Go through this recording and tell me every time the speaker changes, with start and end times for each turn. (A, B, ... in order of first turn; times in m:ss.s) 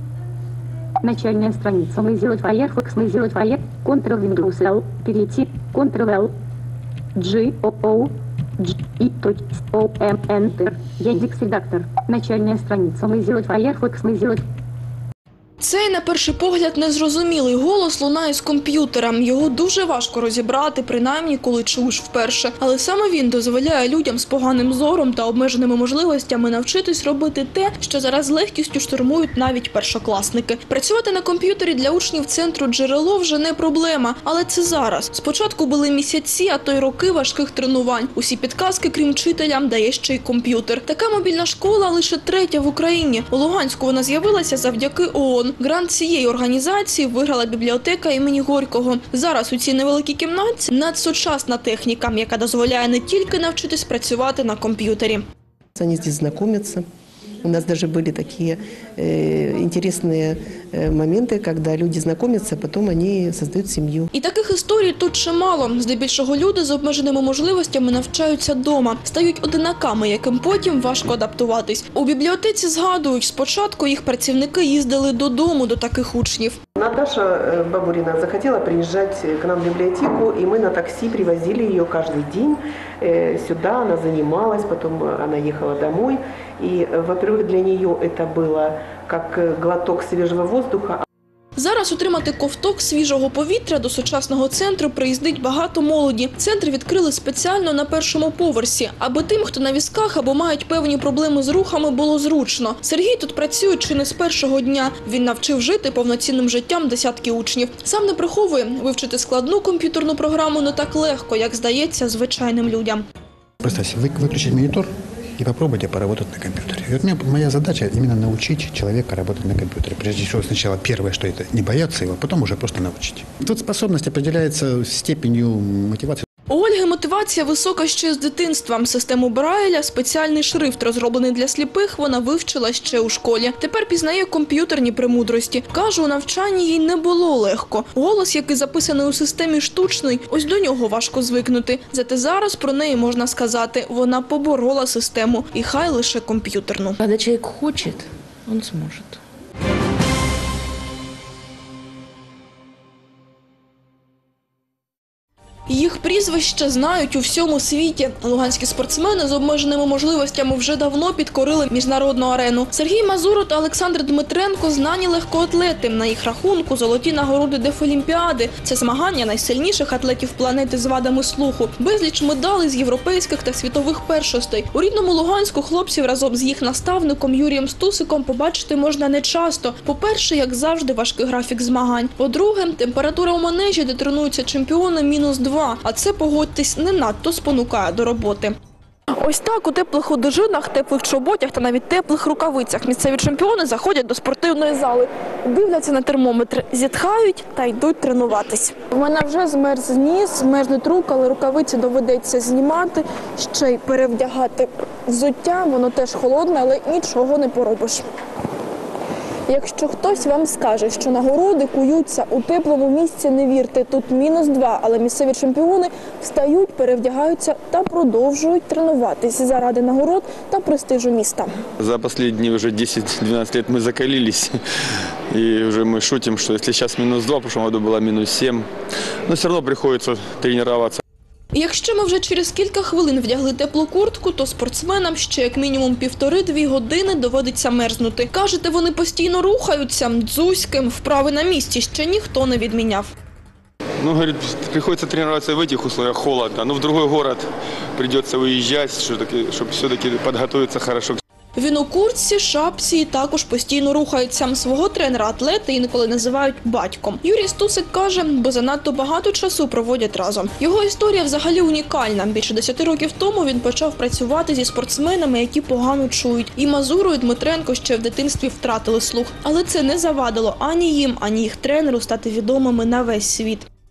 0:01.0-0:06.3 A
0:07.2-0:14.4 A
0:15.6-0:55.2 B
0:55.8-0:56.8 C
0:57.4-1:04.1 C
1:04.1-1:16.6 B
1:16.8-1:31.0 C
1:31.6-1:53.0 B
1:53.6-1:54.8 D
1:55.4-2:06.2 D
2:06.5-2:27.0 B
2:27.0-2:29.2 E
2:35.7-3:08.5 B
3:09.2-3:28.0 B
3:29.5-3:41.5 B
3:41.8-3:44.5 F
3:45.3-3:48.7 F
3:49.3-3:51.0 F
3:51.5-4:03.1 B
4:04.0-4:11.2 F
4:11.6-4:33.6 B